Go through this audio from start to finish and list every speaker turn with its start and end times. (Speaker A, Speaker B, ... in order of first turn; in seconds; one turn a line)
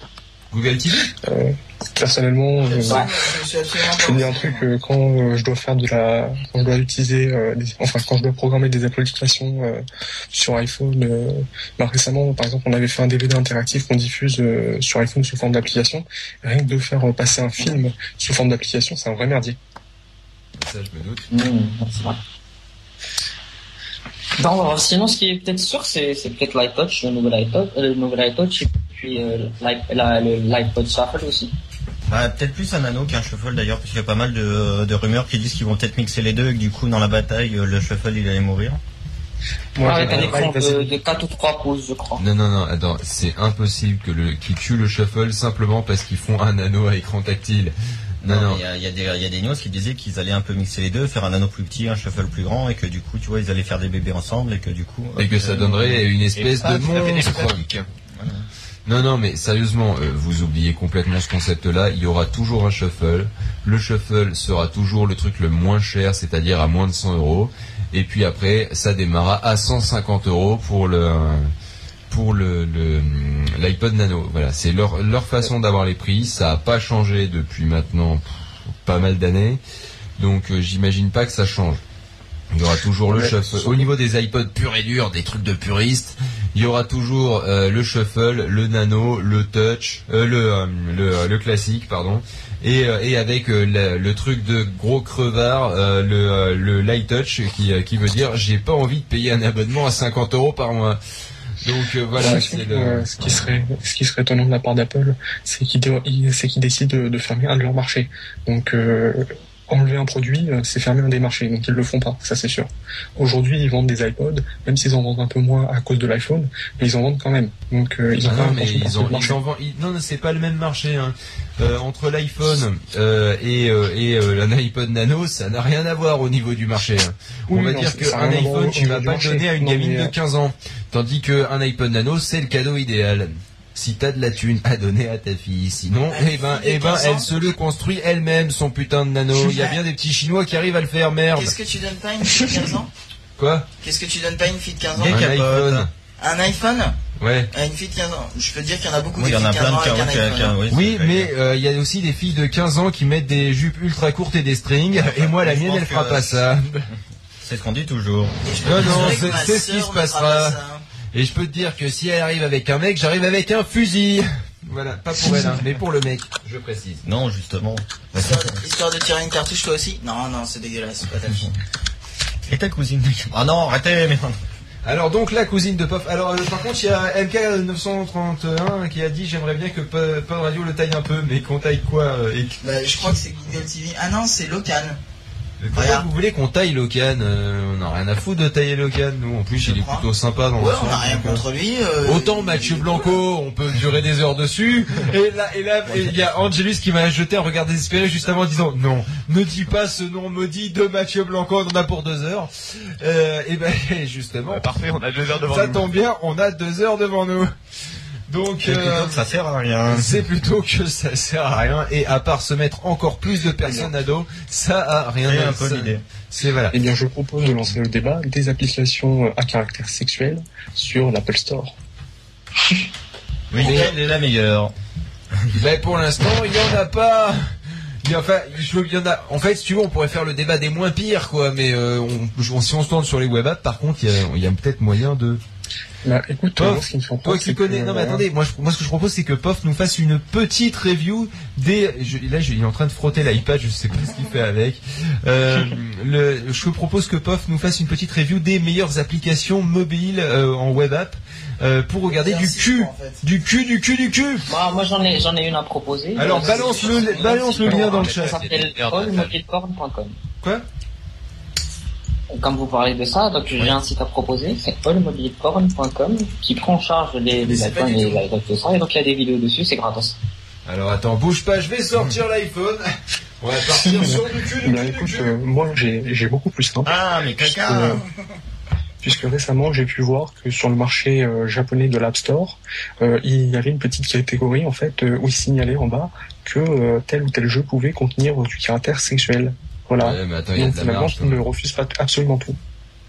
Speaker A: 0.5-1.1
Speaker B: 1.2-3.1
Speaker C: 2.6-4.7
Speaker B: 3.9-19.6
Speaker A: 20.6-21.3
Speaker D: 21.3-22.2
Speaker D: 24.4-31.5
Speaker E: 32.1-38.8
Speaker B: 39.8-40.9
Speaker D: 39.8-42.2
Speaker A: 40.0-40.4
Speaker A: 42.2-48.6
Speaker E: 48.2-56.0
Speaker A: 55.2-57.6
Speaker F: 55.7-57.9
Speaker E: 58.2-58.5
Speaker A: 58.9-71.5
Speaker A: 72.1-79.6
Speaker A: 80.2-81.8
Speaker A: 82.5-101.0
Speaker B: 83.1-83.9
Speaker A: 101.6-103.1
Speaker B: 102.2-119.4
Speaker A: 118.2-141.5
Speaker B: 127.5-130.1
Speaker C: 136.1-137.3
Speaker C: 139.5-139.8
Speaker C: 141.3-142.9
Speaker A: 143.4-143.7
Speaker C: 143.8-145.3
Speaker E: 144.9-145.9
Speaker A: 145.0-145.9
Speaker C: 146.2-147.0
Speaker A: 147.2-147.5
Speaker C: 147.5-150.6
Speaker E: 149.1-151.3
Speaker A: 150.7-156.9
Speaker E: 154.9-159.4
Speaker C: 158.4-160.8
Speaker A: 158.6-160.6
Speaker A: 161.1-167.0
Speaker E: 167.0-168.6
Speaker C: 168.2-171.5
Speaker E: 171.3-171.6
Speaker E: 172.5-174.4
Speaker A: 174.8-183.2
Speaker C: 182.6-185.0
Speaker A: 185.6-191.4
Speaker C: 185.8-186.1
Speaker C: 189.5-193.2
Speaker A: 192.0-204.7
Speaker F: 204.5-205.9
Speaker A: 205.5-207.5
Speaker A: 208.3-209.2
Speaker E: 208.6-210.2
Speaker A: 209.9-216.8
Speaker B: 213.6-213.9
Speaker E: 215.2-216.0
Speaker B: 216.7-221.8
Speaker E: 223.5-224.7
Speaker C: 223.6-223.9
Speaker A: 223.6-223.9
Speaker A: 225.5-227.4
Speaker A: 228.0-235.4
Speaker B: 236.1-238.3
Speaker A: 236.6-254.5
Speaker C: 252.1-253.2
Speaker D: 254.5-260.2
Speaker A: 256.2-258.4
Speaker C: 256.2-257.4
Speaker F: 257.6-259.4
Speaker D: 262.3-270.2
Speaker C: 267.4-268.2
Speaker A: 270.7-272.9
Speaker A: 273.4-275.4
Speaker B: 273.7-278.0
Speaker E: 276.9-278.0
Speaker B: 279.0-292.6
Speaker A: 290.0-291.5